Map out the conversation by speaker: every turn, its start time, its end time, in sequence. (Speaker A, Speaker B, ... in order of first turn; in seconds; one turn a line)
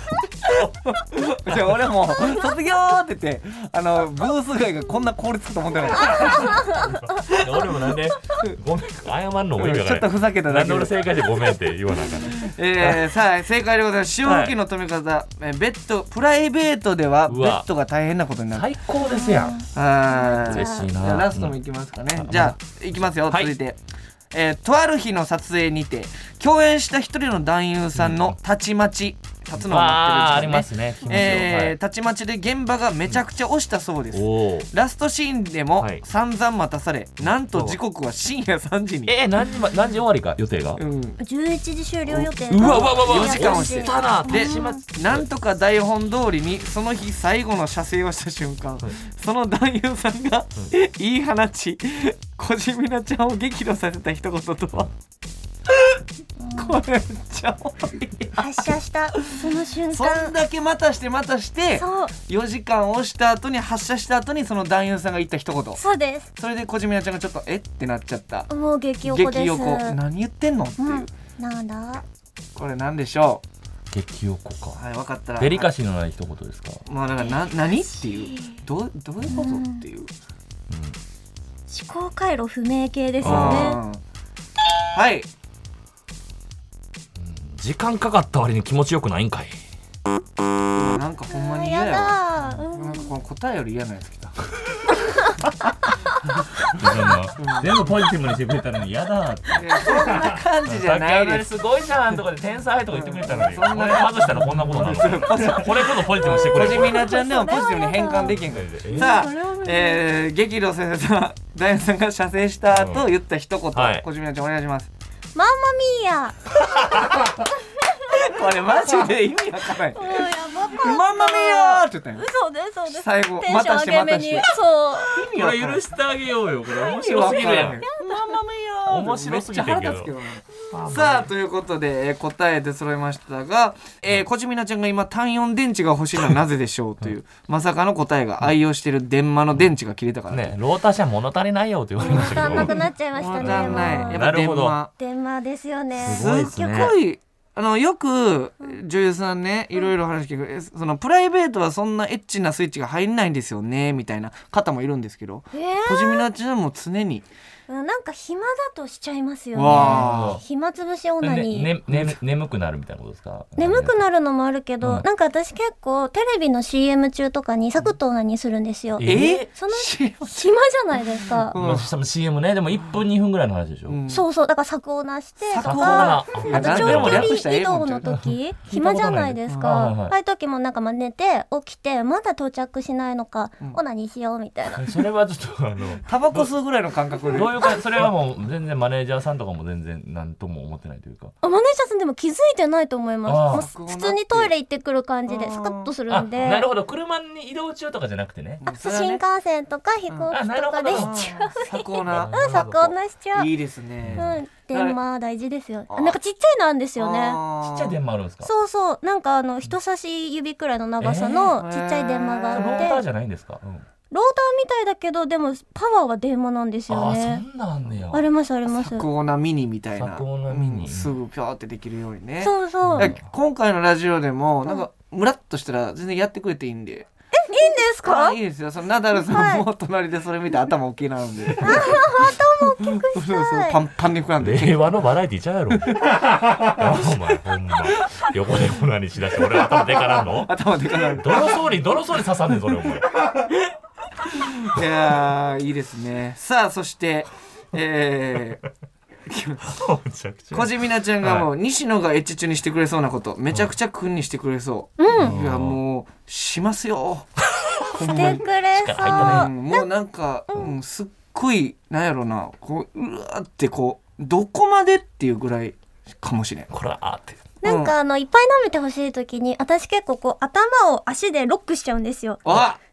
Speaker A: 0.6-6.6
Speaker B: 1.4-1.8
Speaker B: 6.0-13.1
Speaker C: 6.1-6.9
Speaker A: 9.6-11.0
Speaker A: 12.2-18.7
Speaker B: 14.2-14.5
Speaker B: 17.3-17.6
Speaker B: 18.5-19.6
Speaker C: 19.0-20.9
Speaker A: 19.7-23.8
Speaker B: 20.4-21.6
Speaker B: 22.1-22.6
Speaker A: 24.3-39.1
Speaker B: 27.9-28.4
Speaker B: 29.6-31.7
Speaker B: 34.1-34.7
Speaker B: 35.8-36.0
Speaker B: 37.5-37.8
Speaker B: 39.0-40.8
Speaker A: 40.8-41.2
Speaker C: 41.2-44.8
Speaker A: 42.1-54.9
Speaker B: 42.5-45.2
Speaker A: 55.7-56.0
Speaker C: 56.4-56.8
Speaker A: 56.5-65.8
Speaker C: 58.4-60.3
Speaker C: 61.8-62.1
Speaker C: 65.8-66.3
Speaker A: 66.3-68.5
Speaker C: 68.5-70.0
Speaker A: 69.0-71.1
Speaker C: 70.8-72.0
Speaker A: 72.5-73.4
Speaker B: 73.9-74.8
Speaker A: 74.8-75.7
Speaker B: 75.4-76.8
Speaker A: 76.8-80.1
Speaker C: 78.2-78.5
Speaker C: 79.3-79.8
Speaker B: 80.7-81.0
Speaker C: 81.7-83.8
Speaker B: 83.2-83.8
Speaker A: 83.2-84.0
Speaker A: 84.9-85.3
Speaker B: 87.2-89.6
Speaker A: 90.7-94.3
Speaker C: 91.3-93.1
Speaker B: 96.7-107.1
Speaker A: 97.4-97.7
Speaker A: 99.5-101.4
Speaker A: 102.9-114.9
Speaker C: 106.7-108.4
Speaker B: 108.3-109.1
Speaker C: 108.9-110.0
Speaker B: 112.7-113.1
Speaker B: 113.7-114.0
Speaker C: 115.3-116.4
Speaker B: 116.6-117.3
Speaker A: 118.1-122.2
Speaker C: 119.9-125.2
Speaker A: 122.9-124.5
Speaker A: 125.1-125.8
Speaker B: 125.2-127.8
Speaker A: 126.8-140.5
Speaker C: 127.9-128.3
Speaker B: 128.8-130.1
Speaker B: 130.7-131.3
Speaker B: 140.3-142.8
Speaker C: 142.0-144.2
Speaker A: 142.1-144.9
Speaker B: 143.4-144.8
Speaker C: 145.0-146.3
Speaker B: 146.0-146.9
Speaker A: 146.0-157.2
Speaker C: 155.5-156.2
Speaker C: 157.7-161.7
Speaker A: 159.5-160.4
Speaker B: 159.6-160.4
Speaker B: 161.2-164.0
Speaker A: 161.9-162.2
Speaker C: 163.6-171.5
Speaker B: 169.0-169.5
Speaker A: 169.0-170.5
Speaker A: 171.5-171.9
Speaker B: 171.5-174.0
Speaker A: 173.9-174.2
Speaker C: 174.1-185.0
Speaker A: 175.5-178.1
Speaker B: 175.6-177.4
Speaker B: 178.1-180.1
Speaker B: 184.7-186.5
Speaker A: 186.1-187.7
Speaker B: 187.3-191.3
Speaker C: 191.4-196.7
Speaker B: 193.2-193.6
Speaker A: 193.5-194.5
Speaker A: 195.3-195.9
Speaker B: 196.1-198.6
Speaker A: 198.6-199.2
Speaker C: 198.7-203.5
Speaker B: 200.3-201.2
Speaker A: 200.9-202.7
Speaker B: 202.1-202.9
Speaker A: 203.3-205.0
Speaker B: 204.0-204.3
Speaker C: 204.2-207.4
Speaker A: 205.9-206.2
Speaker A: 207.0-207.9
Speaker B: 207.6-208.5
Speaker C: 208.4-213.0
Speaker B: 211.0-211.6
Speaker A: 211.5-212.9
Speaker B: 212.5-213.8
Speaker C: 214.1-217.4
Speaker B: 216.9-218.2
Speaker C: 218.1-219.1
Speaker A: 218.7-227.1
Speaker B: 219.9-221.1
Speaker C: 222.4-223.1
Speaker B: 222.8-223.2
Speaker C: 227.4-228.4
Speaker A: 228.0-234.9
Speaker C: 229.2-229.6
Speaker C: 231.6-233.8
Speaker B: 234.4-236.0
Speaker A: 235.9-236.1
Speaker B: 236.6-240.5
Speaker A: 239.7-241.7
Speaker B: 241.1-243.1
Speaker A: 244.2-248.6
Speaker A: 249.3-249.7
Speaker B: 249.6-251.5
Speaker A: 250.5-257.3
Speaker C: 255.0-255.4
Speaker B: 255.1-255.8
Speaker B: 257.5-259.5
Speaker A: 257.9-258.4
Speaker C: 257.9-259.9
Speaker A: 259.0-266.7
Speaker B: 266.7-267.4
Speaker C: 267.6-272.4
Speaker A: 267.6-267.9
Speaker A: 272.4-272.8